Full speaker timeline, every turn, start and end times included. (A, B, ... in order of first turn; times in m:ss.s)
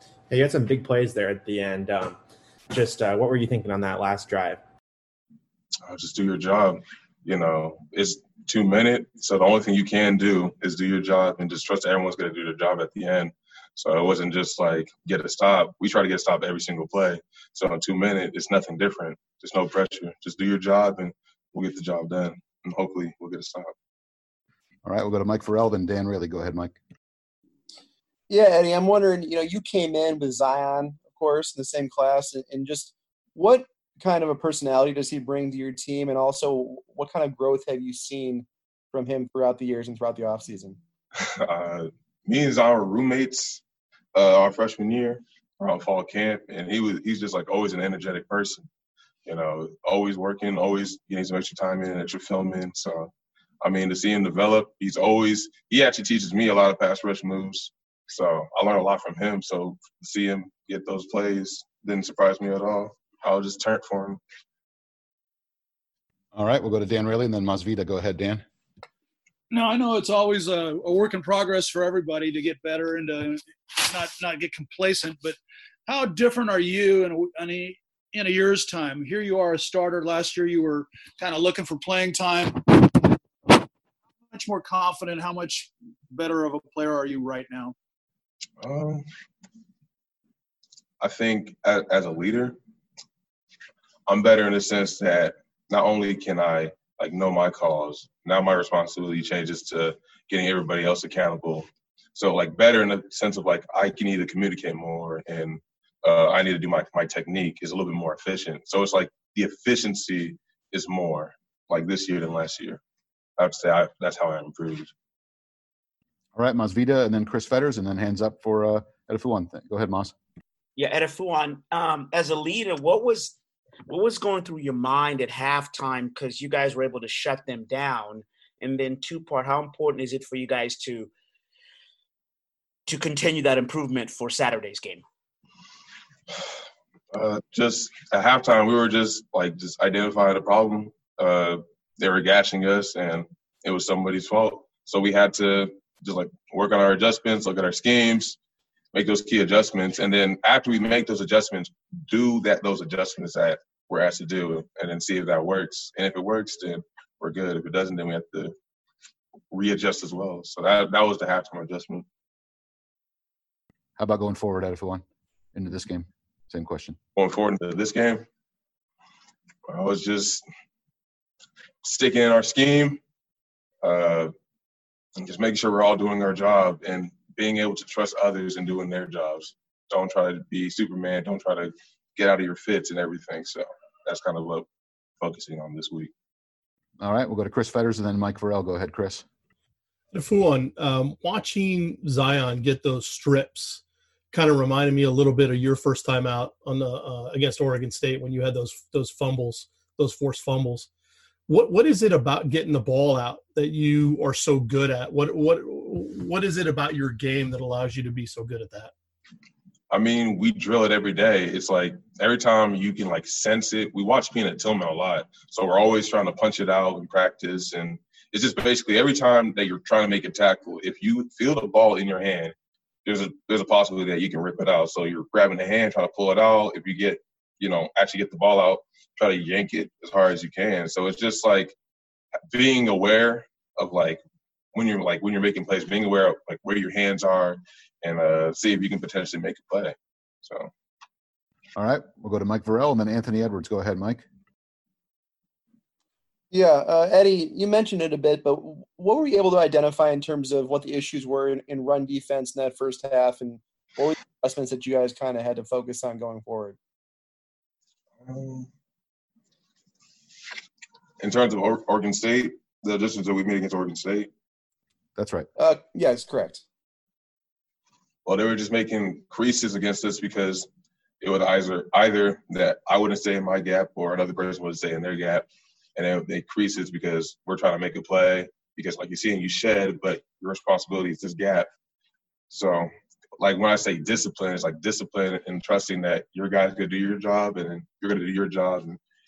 0:00.3-0:02.2 A
0:02.7-0:04.6 A
0:05.9-0:23.7 B
0:24.8-0:26.8 C
0:28.3-0:40.8 D
0:41.4-0:43.6 B
0:44.2-0:48.7 B
0:49.3-0:53.1 B
0:53.6-1:04.2 B
1:06.3-1:08.4 C
1:09.5-1:22.9 E
1:24.3-1:27.8 E
1:28.6-1:29.0 B
1:31.0-1:32.6 B
1:34.1-1:52.8 B
1:53.4-1:54.9 B
1:56.4-2:00.1 C
2:00.8-2:03.3 F
2:03.9-2:11.1 F
2:12.9-2:15.0 F
2:17.1-2:28.4 B
2:28.9-2:38.5 B
2:39.5-2:42.0 B
2:44.0-2:45.0 C
2:45.5-2:47.0 C
2:47.2-2:48.2 B
2:49.7-2:50.4 B
2:51.8-2:53.0 B
2:53.8-2:54.3 B
2:55.2-3:04.7 B
3:05.2-3:06.1 B
3:07.0-3:09.2 C
3:10.1-3:20.9 G
3:21.5-3:28.9 G
3:29.9-3:42.5 B
3:43.0-3:51.7 B
3:52.5-3:54.2 B
3:54.7-4:00.7 B
4:01.8-4:04.2 C
4:06.5-4:16.8 D
4:18.2-4:18.7 B
4:21.2-4:24.3 B
4:25.2-4:25.5 C
4:25.6-4:26.6 D
4:28.3-4:30.7 B
4:31.2-4:41.7 B
4:42.5-4:49.0 B